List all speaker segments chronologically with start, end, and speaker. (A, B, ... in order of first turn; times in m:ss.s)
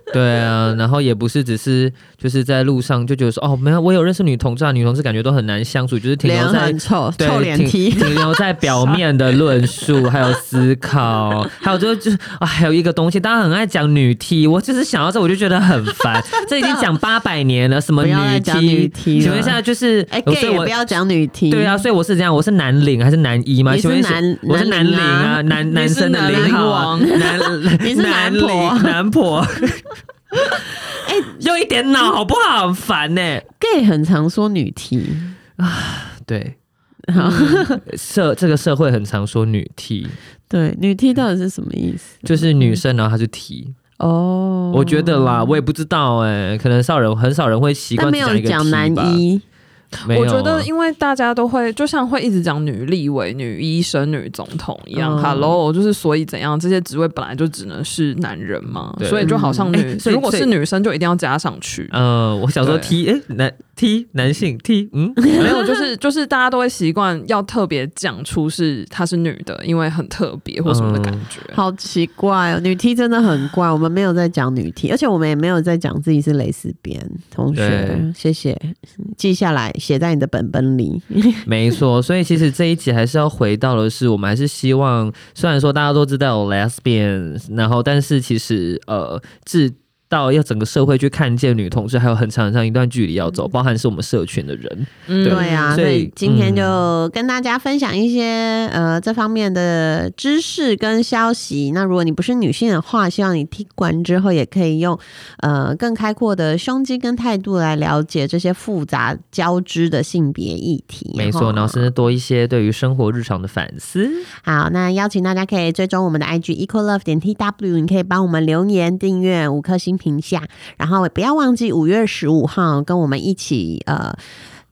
0:00.1-0:20.7 A
0:06.2-0:08.4 B
0:08.7-0:09.0 C
0:16.6-0:16.9 B
0:18.0-0:21.8 B
0:21.5-0:33.4 A
0:23.7-0:25.7 B
0:25.7-0:27.2 C
0:26.3-0:29.0 B
0:31.0-0:31.4 B
0:33.6-0:35.4 B
0:35.6-0:36.6 A
0:37.1-0:37.8 B
0:37.2-0:40.2 A
0:40.5-0:42.8 B
0:42.2-0:43.8 A
0:44.0-0:45.6 B
0:44.7-0:49.2 A
0:48.0-0:49.4 B
0:50.0-1:01.9 C
0:50.1-0:50.7 A
0:54.9-0:55.6 B
0:59.0-1:00.5 A
0:59.2-0:59.7 B
1:01.9-1:05.5 A
1:02.6-1:02.9 C
1:05.3-1:05.7 B
1:05.4-1:11.6 C
1:10.6-1:11.2 A
1:11.5-1:21.5 B
1:17.5-1:18.0 A
1:21.4-1:36.8 A
1:35.1-1:35.8 C
1:35.2-1:51.9 B
1:51.1-1:54.3 A
1:54.4-2:04.2 B